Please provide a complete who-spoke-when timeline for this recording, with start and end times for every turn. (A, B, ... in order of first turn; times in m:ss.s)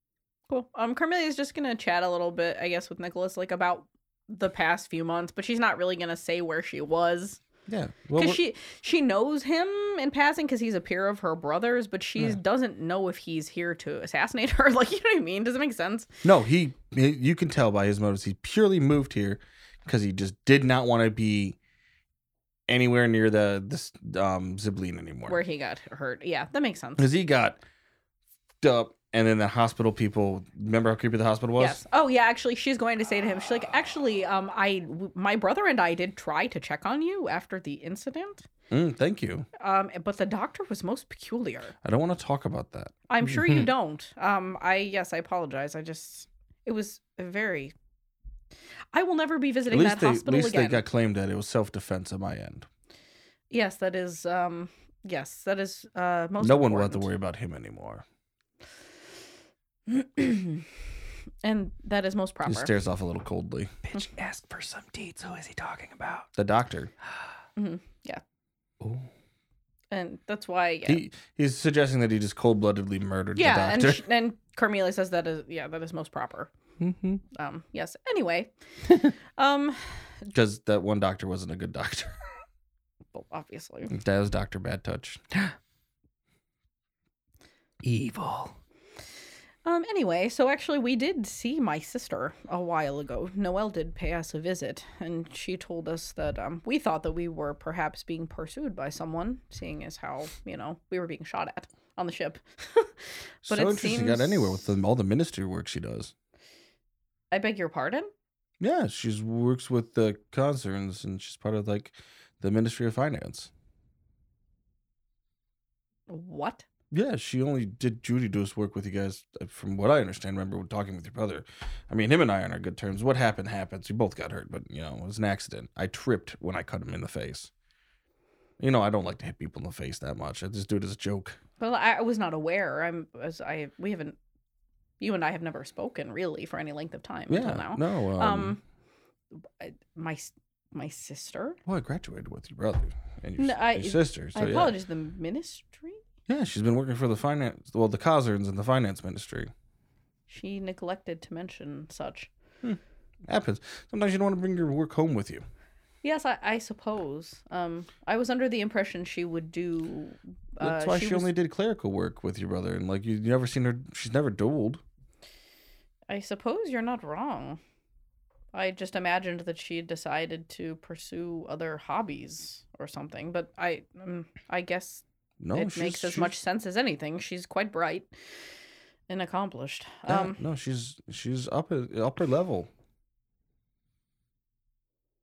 0:00.5-0:07.4 A
0:07.7-0:08.4 B
0:08.2-0:16.1 A
0:16.2-0:21.6 B
0:22.7-0:25.4 B
0:25.3-0:27.1 A
0:27.0-0:27.6 B
0:28.6-0:31.8 B
0:31.6-0:38.5 A
0:38.7-0:39.5 B
0:39.6-0:41.7 A
0:41.8-0:42.9 B
0:43.1-0:47.7 A
0:43.3-0:43.7 C
0:48.9-0:50.8 A
0:49.7-0:52.7 B
0:53.5-0:57.1 A
0:56.4-0:58.0 B
0:59.9-1:00.7 A
1:01.4-1:02.7 A
1:02.5-1:03.7 B
1:03.8-1:06.3 C
1:06.4-1:06.9 B
1:07.6-1:08.2 A
1:08.8-1:09.1 C
1:09.9-1:11.0 A
1:10.9-1:14.0 B
1:13.4-1:16.5 A
1:16.8-1:17.2 C
1:17.3-1:18.5 A
1:19.4-1:20.3 A
1:20.3-1:22.2 B
1:23.1-1:23.9 A
1:23.9-1:25.2 B
1:27.8-1:28.6 C
1:29.6-1:42.9 A
1:43.4-1:44.6 A
1:43.4-1:46.1 B
1:47.3-1:48.1 A
1:48.6-1:53.5 B
1:56.1-1:56.6 A
1:56.9-2:07.5 B
2:08.6-2:11.4 B
2:11.6-2:14.2 A
2:15.0-2:18.6 A
2:17.3-2:18.6 B
2:19.4-2:21.6 A
2:21.7-2:24.8 B
2:23.4-2:26.0 A
2:26.3-2:29.5 B
2:30.3-2:32.3 A
2:32.6-2:35.4 B
2:36.0-2:41.3 A
2:40.6-2:44.8 B
2:46.1-2:47.6 A
2:48.5-2:58.1 A
2:55.4-2:56.4 B
2:59.1-3:00.4 A
3:00.1-3:02.7 B